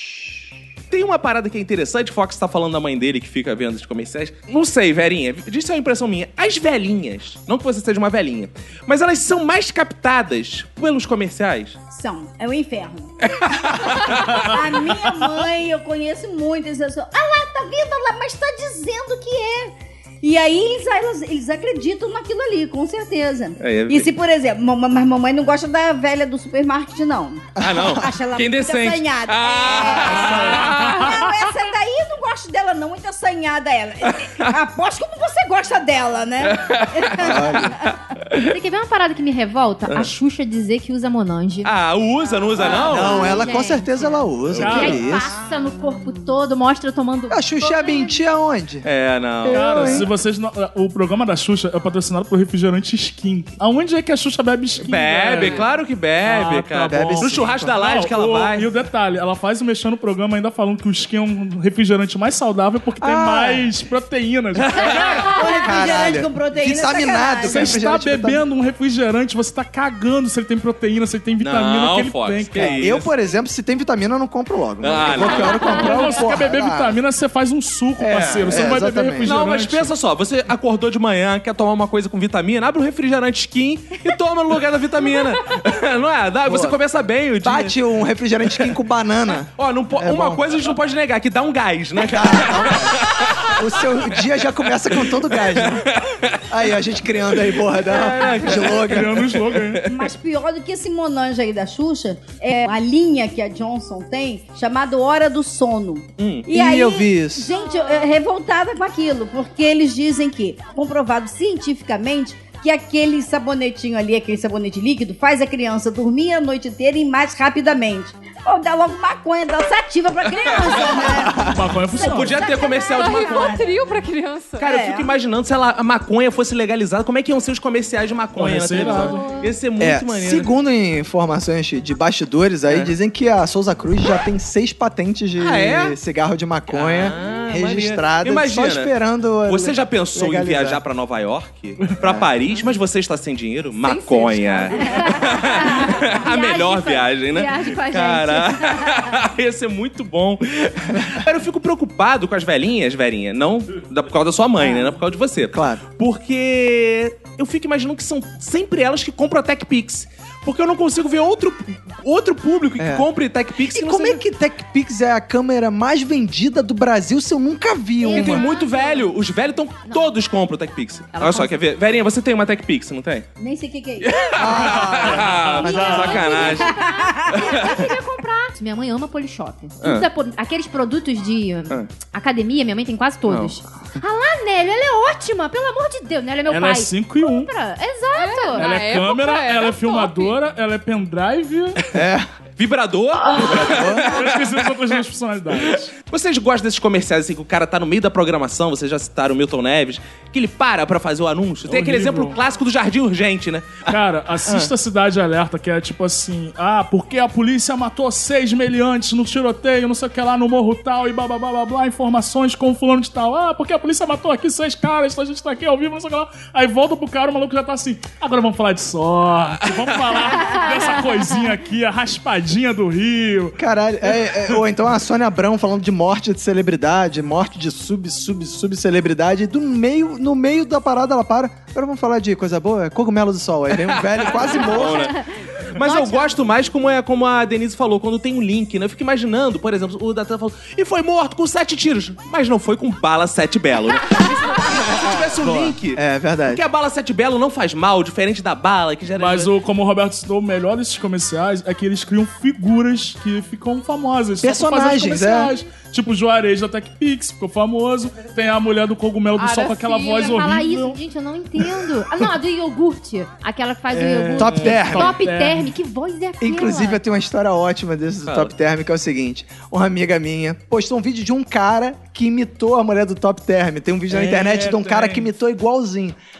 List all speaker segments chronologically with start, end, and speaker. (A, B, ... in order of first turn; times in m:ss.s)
0:00.9-0:11.8 A
0:11.9-0:13.1 B
0:13.2-0:14.6 A
0:13.8-0:37.9 B
0:23.6-0:24.1 A
0:27.6-0:28.0 C
0:27.6-0:31.4 A
0:30.3-0:30.8 D
0:34.0-0:34.5 A
0:36.4-0:38.5 A
0:37.2-0:37.8 C
0:38.3-0:41.7 E
0:41.6-0:43.5 A
0:42.6-0:48.2 E
0:42.6-0:43.2 B
0:42.6-0:45.3 C
0:44.5-0:45.2 D
0:47.3-0:48.8 C
0:48.8-0:50.1 A
0:49.4-0:50.1 C
0:49.5-1:05.3 D
0:54.8-0:58.7 A
0:56.9-0:57.8 C
1:03.0-1:03.7 C
1:04.5-1:05.3 A
1:05.0-1:07.8 B
1:05.6-1:08.4 C
1:07.4-1:13.0 D
1:11.4-1:13.0 A
1:12.6-1:17.0 C
1:14.8-1:15.9 A
1:15.5-1:19.9 D
1:18.0-1:19.3 C
1:18.5-1:27.8 A
1:26.4-1:26.8 C
1:27.4-1:30.4 C
1:29.6-1:34.1 A
1:32.0-1:35.9 C
1:34.9-1:36.6 A
1:36.5-1:39.3 C
1:37.3-1:40.1 A
1:38.7-1:39.8 D
1:39.9-2:03.7 B
1:46.2-1:46.5 A
1:46.5-1:47.5 C
2:00.4-2:01.3 A
2:01.0-2:01.6 C
2:01.4-2:02.4 D
2:02.0-2:03.6 A
2:02.4-2:04.6 F
2:04.6-2:10.5 A
2:04.6-2:05.1 B
2:08.4-2:09.3 D
2:09.8-2:20.8 C
2:12.6-2:12.9 A
2:15.4-2:16.0 A
2:16.7-2:18.9 A
2:19.4-2:44.2 A
2:22.0-2:22.3 C
2:23.8-2:25.5 F
2:24.7-2:29.0 E
2:35.5-2:35.8 C
2:42.8-2:43.0 C
2:43.6-2:48.4 C
2:48.0-2:53.3 A
2:48.1-2:49.1 E
2:49.8-2:50.1 E
2:51.1-2:51.6 E
2:53.4-2:54.6 B
2:54.0-2:56.7 A
2:54.3-2:56.2 C
2:54.9-2:56.4 D
2:55.6-3:08.7 E
2:56.2-2:57.9 B
2:57.3-2:57.8 A
2:59.8-3:00.1 A
3:03.3-3:03.6 A
3:06.5-3:07.5 D
3:08.1-3:10.4 F
3:08.6-3:11.9 D
3:11.9-3:12.2 C
3:12.6-3:15.0 A
3:13.4-3:14.2 C
3:14.0-3:15.9 D
3:15.5-3:23.9 A
3:21.7-3:22.4 D
3:23.8-3:43.6 D
3:24.4-3:24.7 A
3:43.6-3:55.1 C
3:53.7-4:09.5 A
3:55.8-3:56.4 E
4:04.7-4:06.6 C
4:09.1-4:21.0 D
4:14.4-4:15.5 C
4:19.4-4:20.3 F
4:20.0-4:27.0 E
4:23.9-4:25.7 D
4:24.3-4:25.1 C
4:26.4-4:36.1 C
4:28.2-4:28.5 A
4:34.1-4:35.3 D